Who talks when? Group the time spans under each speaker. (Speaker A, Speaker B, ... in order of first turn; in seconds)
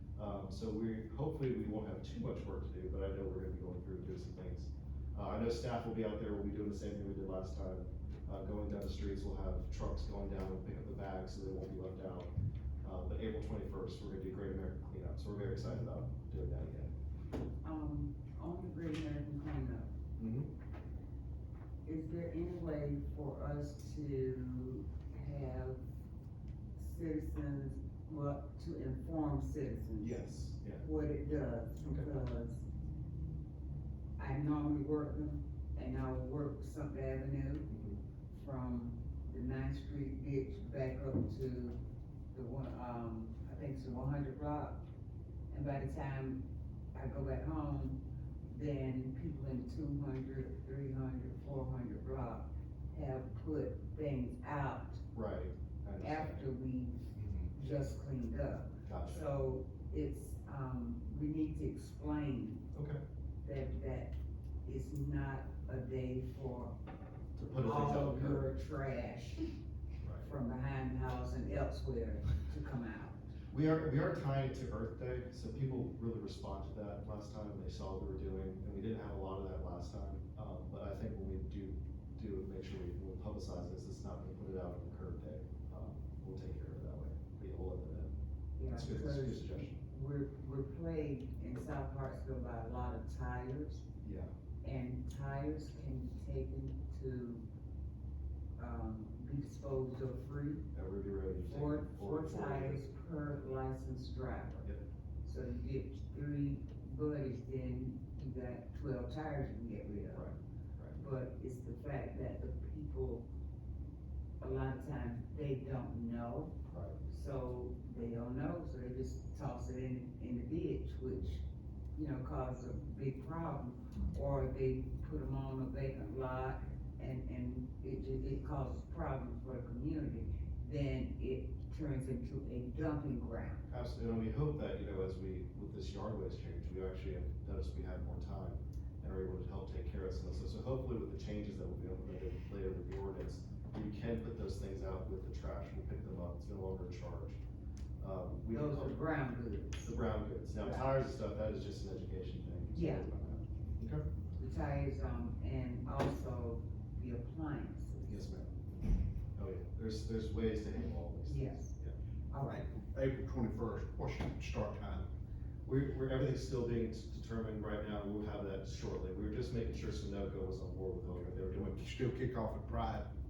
Speaker A: 0.1-12.3, 12.8-16.9, 20.2-20.5, 30.0-30.8, 31.8-32.1, 37.7-38.0, 55.1-56.4, 58.9-59.3, 62.7-63.0, 67.3-68.5, 70.0-70.3, 73.5-88.1, 88.6-89.8, 94.0-94.3, 100.7-102.8, 110.1-111.0, 116.7-117.0, 133.7-147.4, 148.0-149.0, 149.8-154.1, 158.1-158.5, 159.3-161.9, 165.6-171.8
Speaker B: 17.6-19.9, 21.8-25.8, 26.8-30.2, 30.8-32.6, 34.2-37.7, 38.3-41.8, 42.3-44.8, 45.5-46.4, 46.9-55.0, 56.0-62.7, 63.4-66.7, 67.6-69.5, 70.2-73.2, 88.6-93.8, 94.6-97.4, 98.6-100.6, 101.4-104.7, 105.2-110.3, 110.9-113.3, 114.4-121.4, 121.9-133.7, 148.5-150.0, 150.5-150.9, 152.7-153.1, 154.4-158.3, 161.2-161.7, 162.3-162.6
Speaker C: 162.4-165.1, 171.7-173.1